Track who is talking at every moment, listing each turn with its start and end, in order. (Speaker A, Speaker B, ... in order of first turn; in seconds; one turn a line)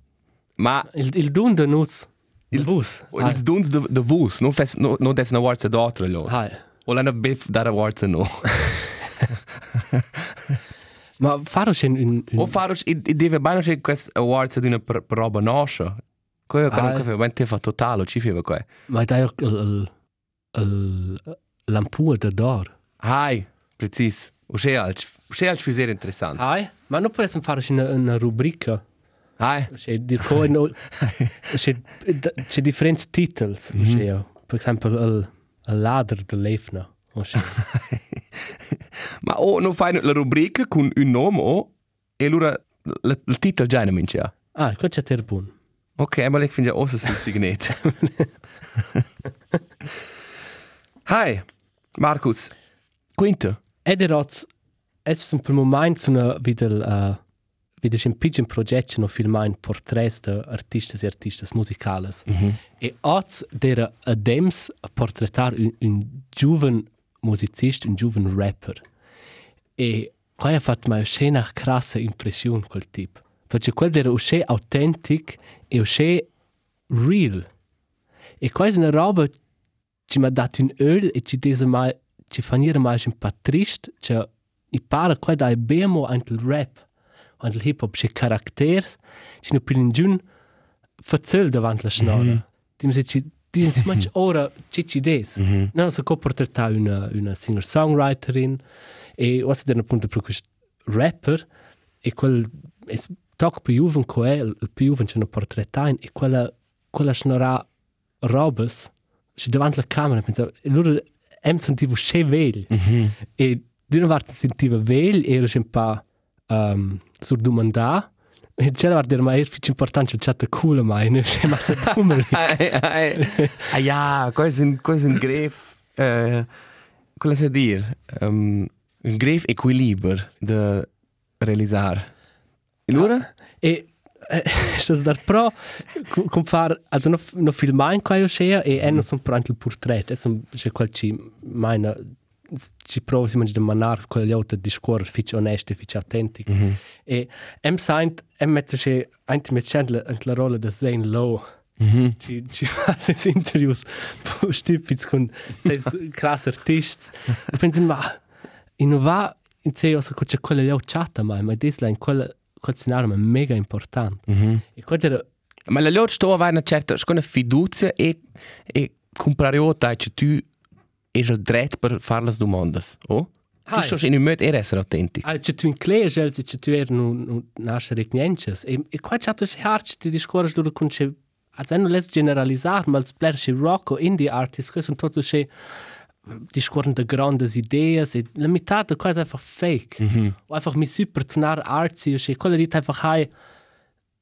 Speaker A: 0.6-0.9
Speaker B: 0.9-3.4
Speaker A: 2.5-8.8
Speaker B: 6.3-6.6
Speaker A: 9.3-10.4
Speaker B: 11.2-12.6
Speaker A: 12.4-18.7
Speaker B: 16.7-17.0
Speaker B: 18.9-19.9
Speaker B: 20.5-22.7
Speaker A: 23.0-26.4
Speaker B: 26.4-28.8
Speaker A: 29.4-29.7
Speaker B: 29.7-30.8
Speaker A: 31.0-31.3
Speaker B: 31.5-37.6
Speaker A: 33.7-34.0
Speaker A: 37.6-38.2
Speaker A: 39.2-44.3
Speaker B: 44.5-45.5
Speaker A: 46.0-47.9
Speaker B: 47.9-48.3
Speaker A: 51.0-51.4
Speaker A: 52.0-52.5
Speaker A: 53.1-53.6
Speaker B: 53.8-54.5
Speaker B: 55.0-57.2
Speaker B: 57.8-62.3
Speaker A: 62.3-62.6
Speaker B: 62.8-68.8
Speaker B: 69.8-76.3
Speaker B: 76.9-77.5
Speaker B: 78.4-79.3
Speaker B: 80.1-86.8
Speaker B: 87.4-90.2
Speaker B: 91.0-98.6
Speaker A: 92.0-92.4
Speaker A: 95.4-95.7
Speaker B: 99.2-101.5
Speaker B: 102.0-107.7
Speaker B: 108.2-112.7
Speaker A: 112.7-113.1
Speaker B: 113.2-122.5
Speaker A: 122.2-126.5
Speaker B: 123.2-123.7
Speaker A: 127.2-130.9
Speaker A: 131.4-132.1
Speaker A: 132.9-133.3
Speaker B: 132.9-151.4
Speaker A: 146.5-146.7
Speaker A: 151.8-152.2
Speaker B: 152.2-158.2
Speaker B: 158.8-165.2
Speaker A: 164.3-164.6
Speaker A: 165.7-170.5
Speaker A: 171.1-175.2
Speaker B: 173.7-174.0
Speaker B: 175.2-185.5
Speaker B: 186.2-193.3
Speaker A: 190.0-190.3